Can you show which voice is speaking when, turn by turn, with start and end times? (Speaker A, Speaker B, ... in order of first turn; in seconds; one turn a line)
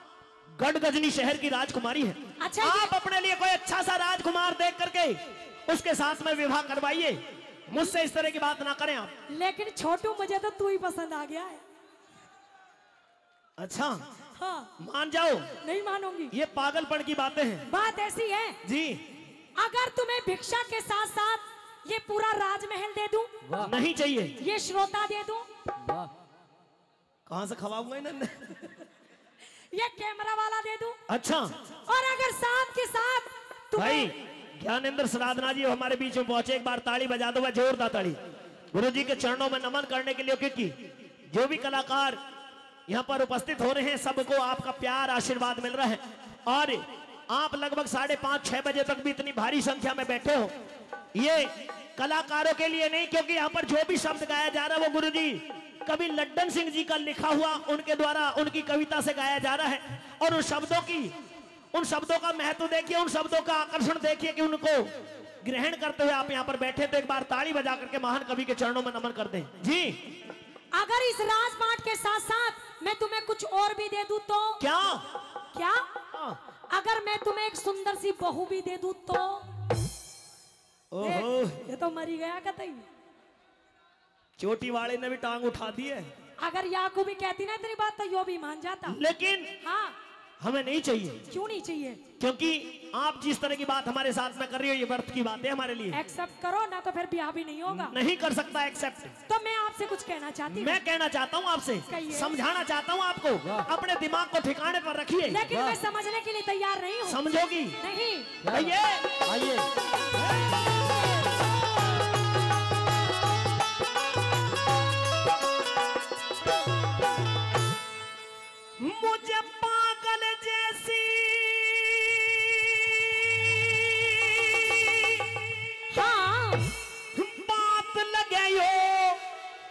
Speaker A: 0.6-9.1
Speaker B: 2.4-2.9
Speaker B: 9.3-11.6
Speaker A: 13.6-14.0
Speaker B: 14.4-14.7
Speaker A: 14.8-15.5
Speaker B: 15.6-16.3
Speaker A: 16.3-17.6
Speaker B: 17.7-18.6
Speaker A: 18.6-19.0
Speaker B: 19.6-23.3
Speaker C: 23.4-23.7
Speaker A: 23.6-24.3
Speaker B: 24.4-25.5
Speaker C: 25.8-26.1
Speaker A: 27.2-28.7
Speaker B: 29.7-31.0
Speaker A: 31.1-31.5
Speaker B: 31.9-34.1
Speaker A: 33.7-38.2
Speaker A: 38.7-40.8
Speaker A: 41.3-42.2
Speaker A: 42.9-50.5
Speaker A: 51.1-61.1
Speaker A: 61.7-64.9
Speaker A: 65.4-70.0
Speaker B: 70.7-74.6
Speaker A: 74.6-75.0
Speaker B: 75.5-75.8
Speaker A: 76.1-76.4
Speaker B: 76.7-79.5
Speaker A: 80.9-81.7
Speaker B: 81.0-82.8
Speaker A: 84.4-86.1
Speaker B: 86.4-89.0
Speaker A: 88.9-89.5
Speaker B: 89.6-90.0
Speaker A: 90.4-91.2
Speaker B: 91.3-92.0
Speaker A: 92.2-96.0
Speaker B: 95.9-98.0
Speaker A: 97.8-99.2
Speaker B: 99.3-100.8
Speaker A: 100.5-105.4
Speaker B: 101.9-102.3
Speaker C: 103.4-103.7
Speaker B: 105.3-107.2
Speaker C: 105.5-105.8
Speaker A: 107.0-107.8
Speaker B: 107.8-108.4
Speaker C: 108.4-109.7
Speaker A: 108.5-109.2
Speaker A: 118.8-125.3
Speaker B: 125.9-126.7
Speaker A: 127.1-129.2